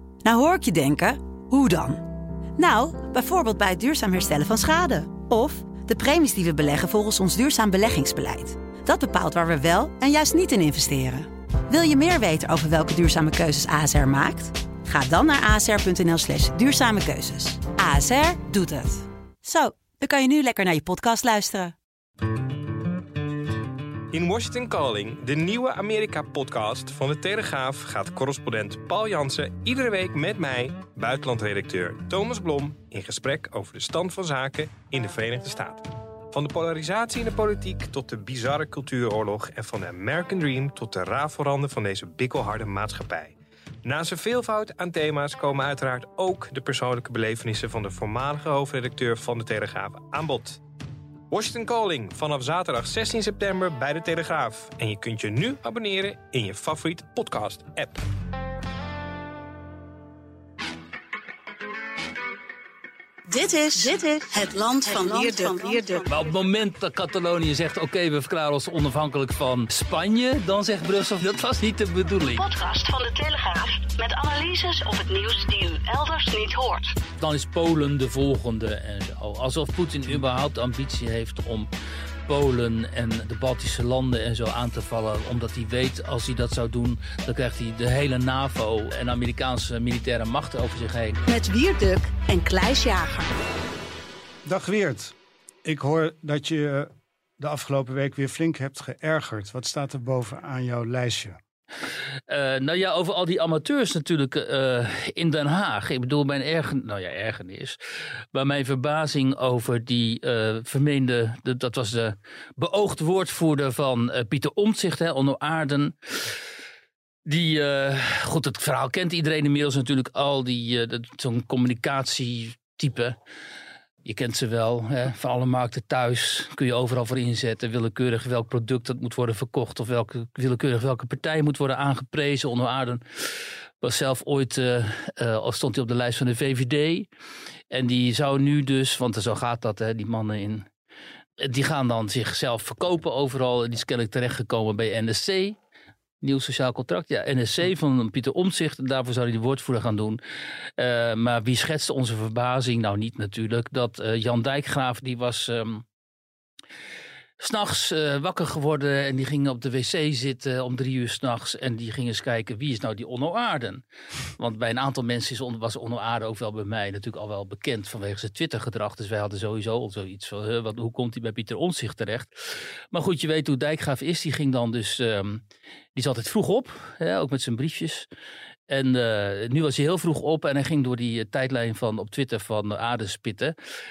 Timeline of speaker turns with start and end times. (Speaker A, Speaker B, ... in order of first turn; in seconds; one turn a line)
Speaker A: 0.2-2.0
Speaker A: 2.5-21.7
Speaker B: 24.1-50.6
Speaker B: 51.3-58.1
Speaker C: 63.3-66.1
Speaker A: 64.8-65.9
Speaker D: 66.1-72.5
Speaker C: 72.3-76.9
Speaker D: 77.2-81.7
Speaker D: 82.2-91.2
Speaker C: 91.2-93.3
Speaker E: 94.4-101.4
Speaker D: 102.3-107.8
Speaker D: 108.3-116.3
Speaker D: 117.2-123.2
Speaker D: 124.0-137.1
Speaker D: 137.7-140.7
Speaker D: 141.4-145.6
Speaker D: 146.2-150.2
Speaker D: 150.8-155.8
Speaker D: 157.4-163.8
Speaker D: 164.4-175.4
Speaker D: 175.9-178.1
Speaker D: 178.7-183.5